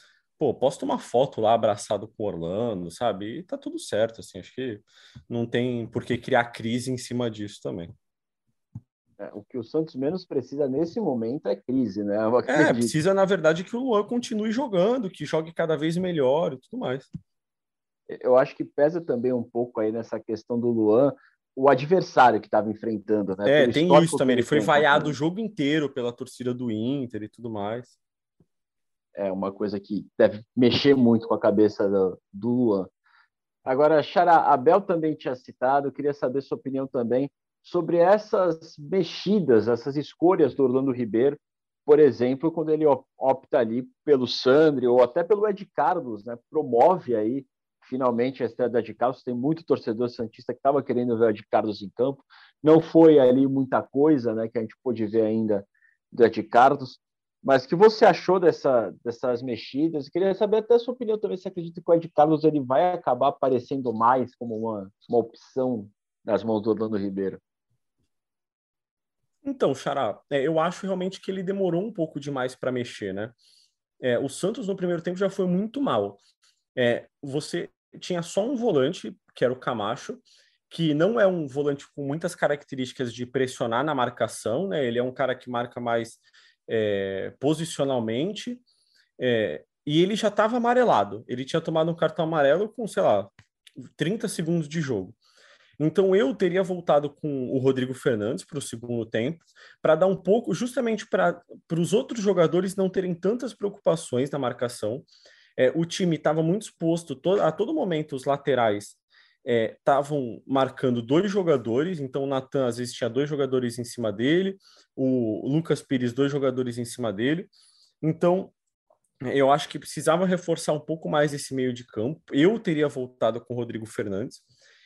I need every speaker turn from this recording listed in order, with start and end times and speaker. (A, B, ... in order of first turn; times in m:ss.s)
0:00.4-0:07.9 A
0:09.2-0:12.9 B
0:12.5-0:17.1 A
0:18.1-0:25.2 B
0:23.4-0:28.0 A
0:29.2-0:32.9 B
0:33.7-1:07.4 B
1:09.4-1:13.4 A
1:14.0-1:16.2 A
1:16.8-1:28.6 A
1:29.2-1:33.3 A
1:34.0-1:35.2 A
1:35.8-1:45.1 A
1:45.6-1:57.5 A
1:58.0-1:58.5 A
1:59.2-2:04.4 A